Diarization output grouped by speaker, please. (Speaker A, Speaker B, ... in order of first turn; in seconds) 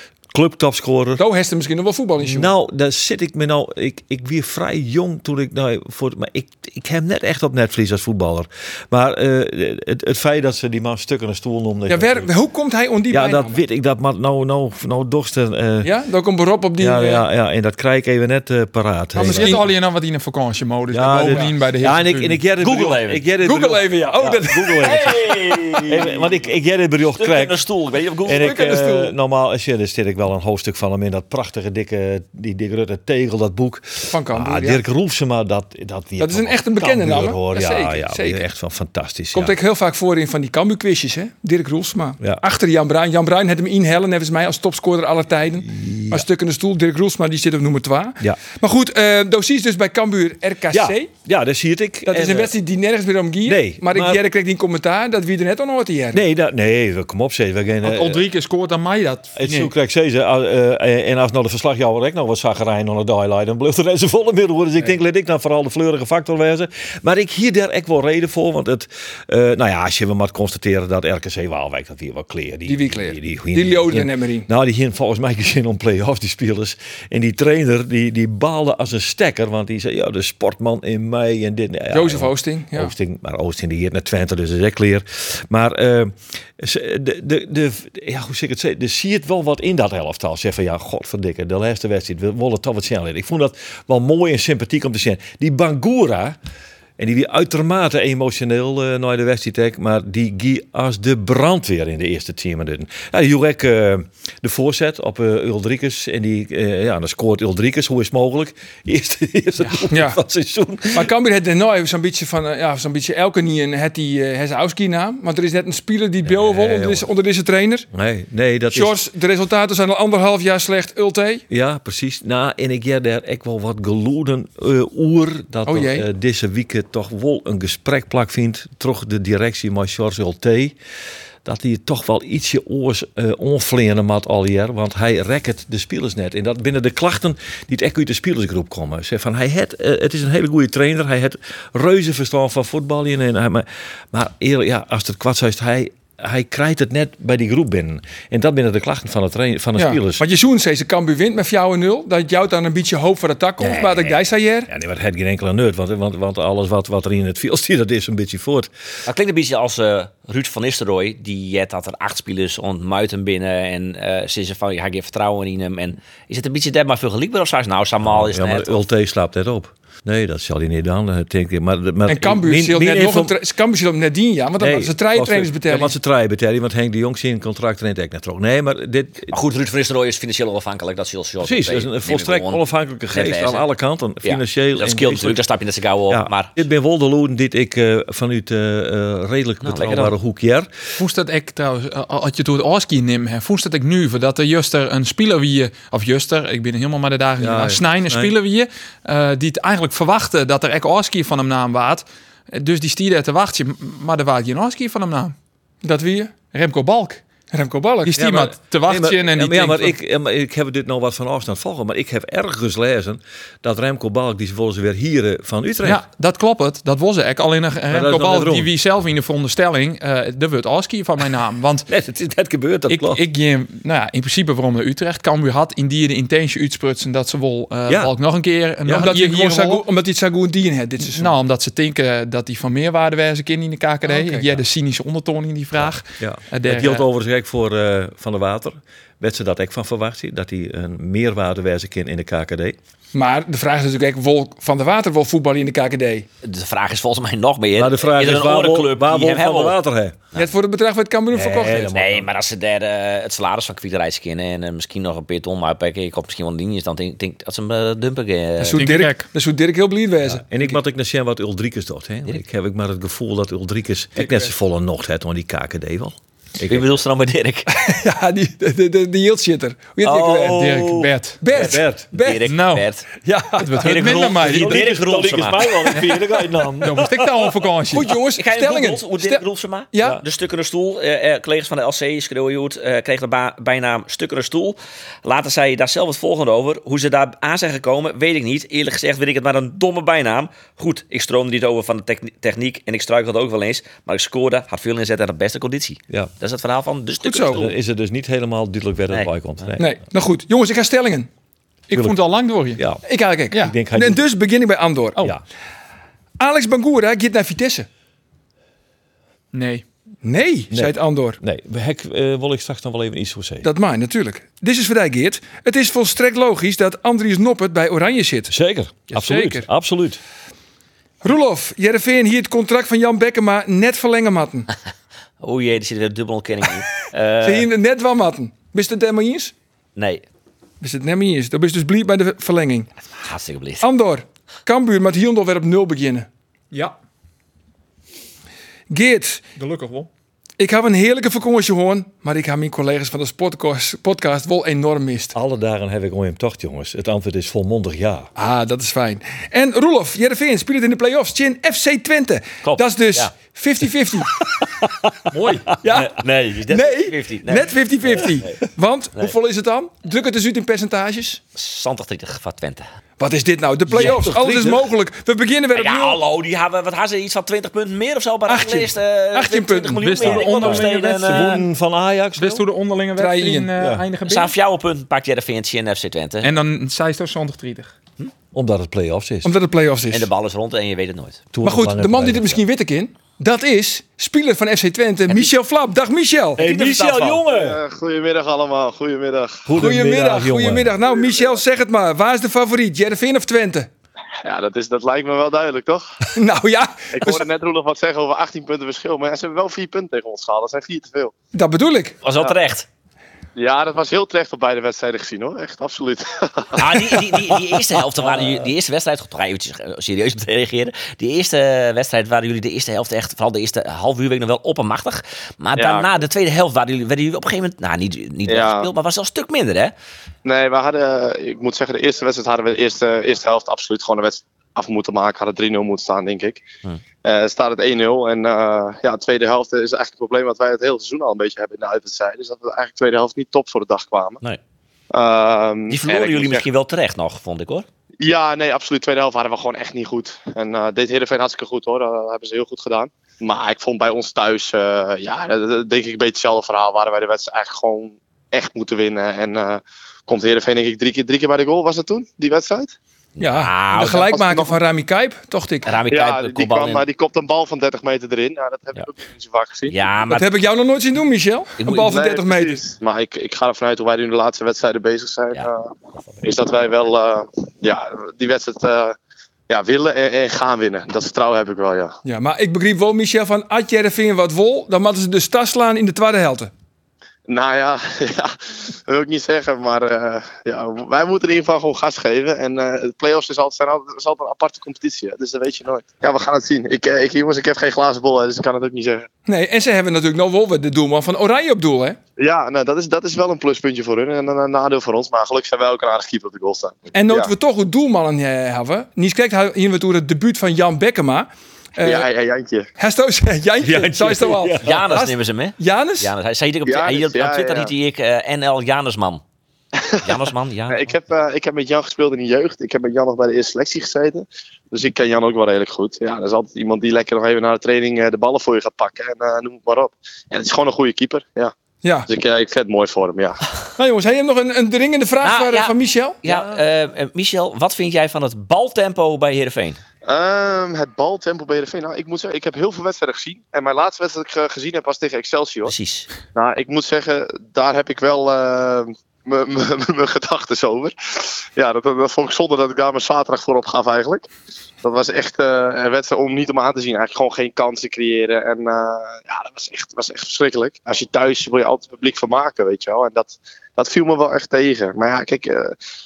Speaker A: 0.3-1.2, 2.2-12.3, 13.1-15.9, 16.8-19.7, 20.9-25.2, 25.9-27.6, 28.2-39.5, 45.6-46.2, 50.7-52.5, 53.4-54.2, 56.1-58.2, 59.4-96.4, 97.0-111.1, 116.2-117.1, 117.9-119.0, 121.5-130.8, 131.4-150.2, 154.7-158.7, 168.0-173.4, 174.6-179.3, 181.4-185.4, 186.1-190.7, 197.4-198.3, 208.2-216.0, 217.9-218.7, 221.9-223.2, 227.9-228.1, 235.8-242.8, 247.8-250.2, 251.3-252.3, 260.3-266.9, 271.5-272.0, 274.2-277.5, 297.5-299.9, 301.9-302.2, 302.8-303.0, 303.5-304.2, 310.7-313.7, 318.5-320.2, 345.3-348.3, 363.9-364.9, 370.4-372.6, 373.8-374.0, 378.5-379.5, 381.5-382.6, 386.6-387.8, 389.6-390.9, 503.8-505.0
Speaker B: 1.2-2.5, 11.9-13.6, 15.8-17.2, 19.2-19.6, 23.4-25.2, 28.4-29.1, 34.1-34.8, 36.2-38.4, 39.3-51.1, 52.1-56.2, 72.7-74.5, 81.9-82.9, 109.9-110.2, 110.9-117.8, 118.7-121.4, 125.7-126.1, 149.8-154.7, 172.1-175.9, 205.8-206.4, 207.5-208.2, 228.9-231.3, 234.0-234.5, 243.1-246.2, 250.3-251.9, 258.6-260.8, 267.7-270.7, 271.4-272.5, 273.2-274.2, 277.9-280.2, 297.2-297.6, 299.8-301.3, 303.1-305.2, 306.4-307.9, 310.2-311.4, 313.6-318.5, 319.1-319.7, 321.2-324.7, 327.4-329.5, 330.8-332.9, 333.8-336.3, 338.9-339.4, 340.6-345.3, 348.4-354.3, 355.8-356.1, 356.7-361.4, 363.2-366.2, 368.5-370.4, 373.1-373.7, 379.4-380.3, 381.6-386.6, 389.8-393.9, 396.3-397.4, 401.5-402.1, 453.4-455.9, 460.3-462.8, 472.2-476.7, 489.5-492.2, 497.1-502.3, 503.0-506.3, 524.0-526.4
Speaker C: 19.1-22.4, 57.8-59.7, 191.0-205.3, 206.5-207.2, 208.0-209.9, 215.8-221.9, 222.9-229.8, 231.0-237.1, 258.8-259.3, 270.4-271.4, 272.4-272.9, 273.6-274.9, 276.8-278.1, 301.9-302.8, 309.5-309.8, 339.6-340.1, 355.3-355.6, 370.0-371.6, 372.4-374.5, 376.4-377.9
Speaker D: 22.6-23.2, 24.8-26.4, 27.1-28.5, 153.8-154.1, 159.1-168.8, 179.3-183.7, 184.2-186.5, 189.6-190.1, 246.4-249.8, 251.9-258.8, 266.7-267.7, 270.0-270.8, 271.5-273.1, 273.8-276.1, 278.4-297.7, 325.4-327.7, 329.9-330.2, 333.2-333.8, 352.6-353.3, 355.5-358.6, 361.5-362.9, 365.7-371.6, 374.2-376.5, 380.1-381.4, 386.6-387.4, 402.2-402.9, 406.8-419.9, 435.9-437.9, 453.4-454.3, 455.9-457.0, 459.9-460.5, 461.8-462.1, 504.8-509.4, 510.2-511.1, 525.4-530.0, 535.9-536.3
Speaker E: 387.5-389.6, 391.1-391.6, 394.4-396.1, 397.1-401.3, 403.6-407.2, 415.8-416.1, 418.4-418.9, 420.4-426.6, 427.2-434.4, 435.1-436.7, 438.2-452.9, 454.0-454.8, 456.1-459.9, 461.9-465.9, 466.4-469.1, 469.7-472.1, 477.5-489.3, 492.4-497.5, 502.0-502.9, 506.9-507.9, 510.0-521.7, 522.3-523.6, 530.2-535.9, 536.5-544.5, 545.0-555.9